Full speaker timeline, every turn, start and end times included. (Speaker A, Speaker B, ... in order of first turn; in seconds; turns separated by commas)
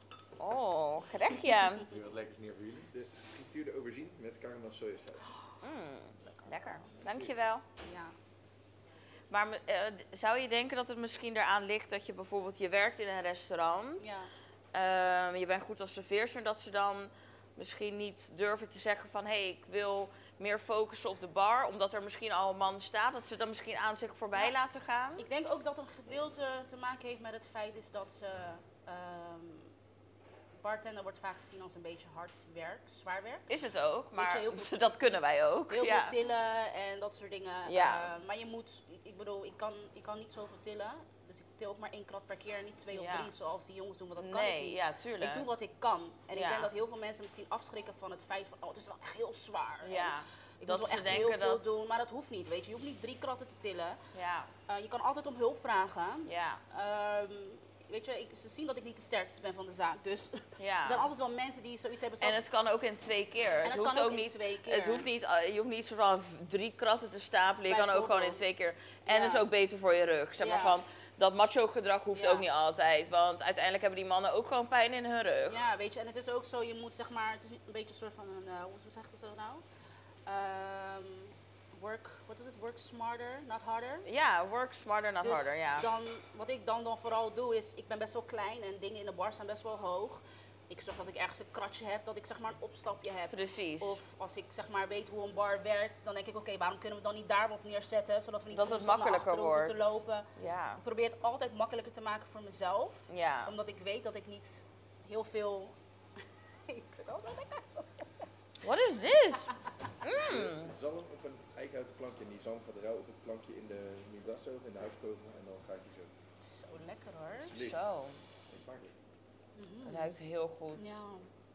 Speaker A: 0.4-1.9, Speaker B: 1.9-5.3, Speaker A: 5.6-7.7, Speaker C: 7.8-8.1, Speaker A: 9.3-14.1, Speaker C: 14.0-14.3, Speaker A: 14.7-25.3, Speaker C: 25.2-29.7, Speaker C: 30.6-33.5, Speaker A: 33.5-36.1, Speaker C: 34.2-34.8, Speaker C: 35.7-54.0, Speaker A: 37.7-38.1, Speaker A: 42.9-43.3, Speaker A: 44.2-45.5, Speaker A: 46.3-46.7, Speaker A: 49.8-51.9, Speaker A: 54.1-54.5, Speaker C: 54.7-62.4, Speaker A: 56.3-56.6, Speaker A: 60.6-61.1, Speaker A: 62.2-75.6, Speaker C: 63.6-65.1, Speaker C: 67.7-68.4, Speaker C: 69.1-69.5, Speaker C: 70.4-70.8, Speaker C: 72.2-72.5, Speaker C: 75.5-79.6, Speaker C: 80.3-84.1, Speaker A: 84.0-85.9, Speaker C: 85.2-105.8, Speaker A: 93.3-94.0, Speaker A: 98.5-100.8, Speaker A: 103.1-103.5, Speaker C: 106.7-108.1, Speaker A: 108.6-109.5, Speaker A: 110.0-110.7, Speaker B: 110.1-116.1, Speaker C: 116.4-117.6, Speaker B: 117.5-117.9, Speaker A: 117.6-118.2, Speaker B: 118.5-118.9, Speaker C: 119.6-120.1, Speaker A: 119.8-121.0, Speaker C: 120.8-121.3